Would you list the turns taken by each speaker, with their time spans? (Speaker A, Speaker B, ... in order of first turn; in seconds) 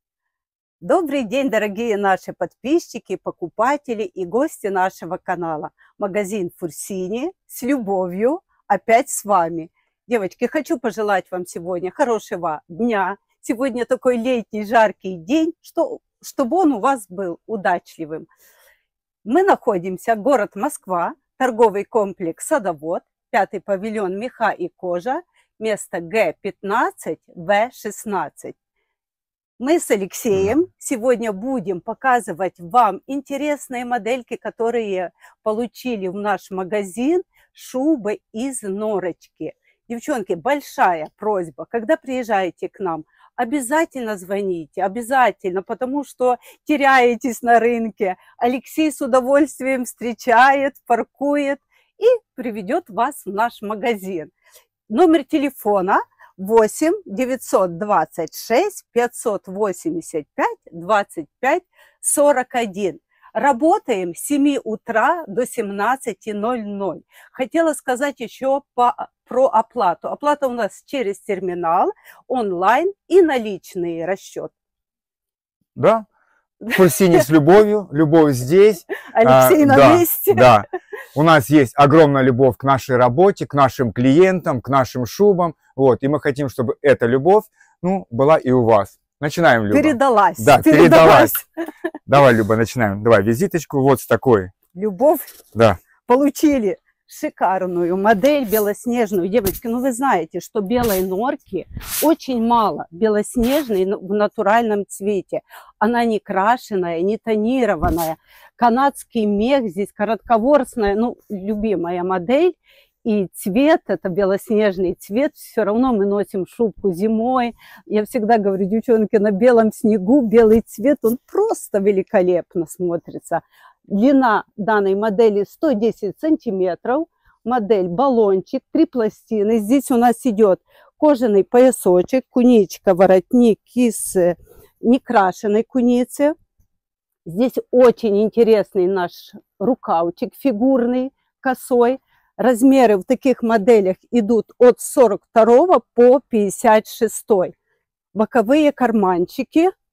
Speaker A: 0.8-18.3, 19.2-28.6, 29.6-54.3, 54.9-74.5, 76.7-77.2, 79.1-80.5, 89.7-91.4, 94.7-95.3, 96.0-136.3, 137.2-147.5, 148.1-149.7
Speaker B: 75.8-76.1, 76.7-91.3, 92.1-94.5, 95.5-95.8